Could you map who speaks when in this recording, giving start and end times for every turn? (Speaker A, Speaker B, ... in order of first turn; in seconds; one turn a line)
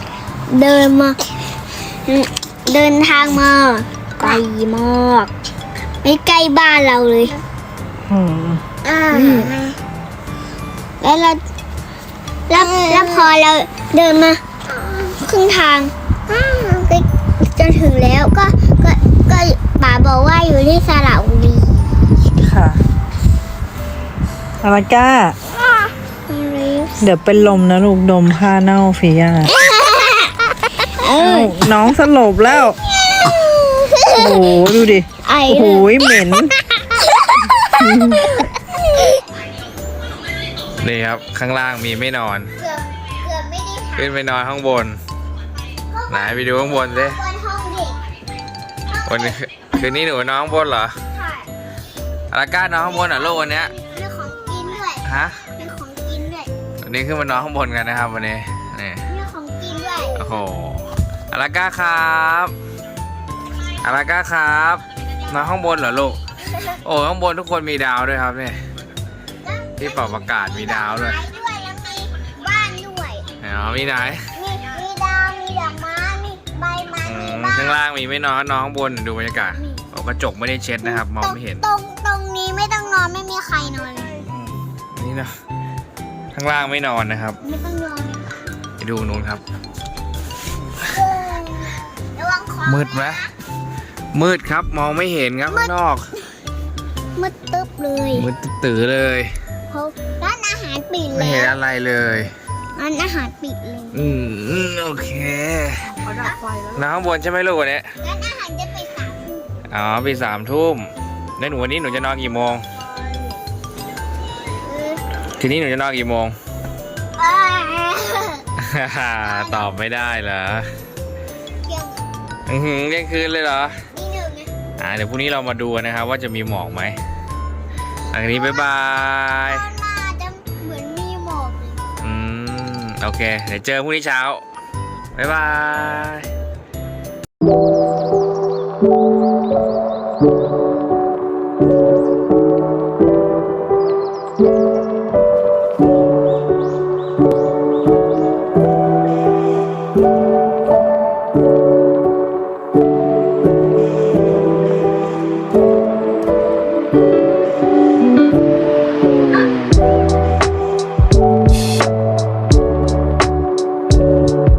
Speaker A: 0.5-1.2
Speaker A: 2.0-5.3
Speaker A: 6.0-7.4
Speaker B: 8.1-9.5
Speaker A: 8.8-9.7
Speaker A: 11.0-11.4
Speaker A: 12.5-21.9
Speaker B: 22.2-22.8
Speaker B: 24.6-25.4
Speaker A: 26.3-27.1
Speaker B: 27.0-29.5
Speaker A: 29.5-31.6
Speaker B: 31.1-32.8
Speaker A: 32.6-39.2
Speaker B: 34.1-36.5
Speaker B: 37.7-38.5
Speaker C: 40.8-42.5
Speaker A: 42.6-44.1
Speaker C: 44.0-45.0
Speaker A: 45.9-48.0
Speaker C: 46.1-47.2
Speaker A: 48.9-49.4
Speaker C: 49.0-51.0
Speaker A: 51.1-51.5
Speaker C: 52.3-53.7
Speaker A: 52.8-56.5
Speaker C: 55.0-55.4
Speaker C: 56.8-59.0
Speaker A: 59.1-60.3
Speaker C: 60.2-62.5
Speaker C: 63.8-66.2
Speaker C: 66.8-68.5
Speaker A: 69.4-73.3
Speaker C: 69.8-71.2
Speaker C: 73.4-74.2
Speaker A: 74.3-77.8
Speaker C: 77.0-81.6
Speaker A: 79.6-79.8
Speaker A: 80.8-84.2
Speaker C: 84.2-85.3
Speaker C: 86.3-87.4
Speaker A: 87.4-88.4
Speaker C: 88.8-89.4
Speaker A: 90.8-93.3
Speaker C: 92.6-93.2
Speaker C: 94.1-96.1
Speaker A: 95.5-95.7
Speaker A: 97.2-98.3
Speaker C: 98.1-99.3
Speaker A: 99.7-101.6
Speaker C: 101.1-102.3
Speaker A: 102.8-104.2
Speaker C: 103.9-106.1
Speaker A: 106.1-106.4
Speaker C: 106.7-107.9
Speaker A: 108.0-109.5
Speaker C: 109.7-112.7
Speaker A: 114.6-115.0
Speaker C: 115.4-116.3
Speaker A: 117.2-118.4
Speaker C: 118.6-120.7
Speaker A: 119.2-119.7
Speaker A: 121.6-122.0
Speaker C: 122.5-123.8
Speaker A: 123.9-124.5
Speaker C: 124.8-127.0
Speaker C: 128.1-129.6
Speaker A: 128.2-128.7
Speaker A: 129.3-131.9
Speaker C: 132.0-134.4
Speaker C: 135.1-136.3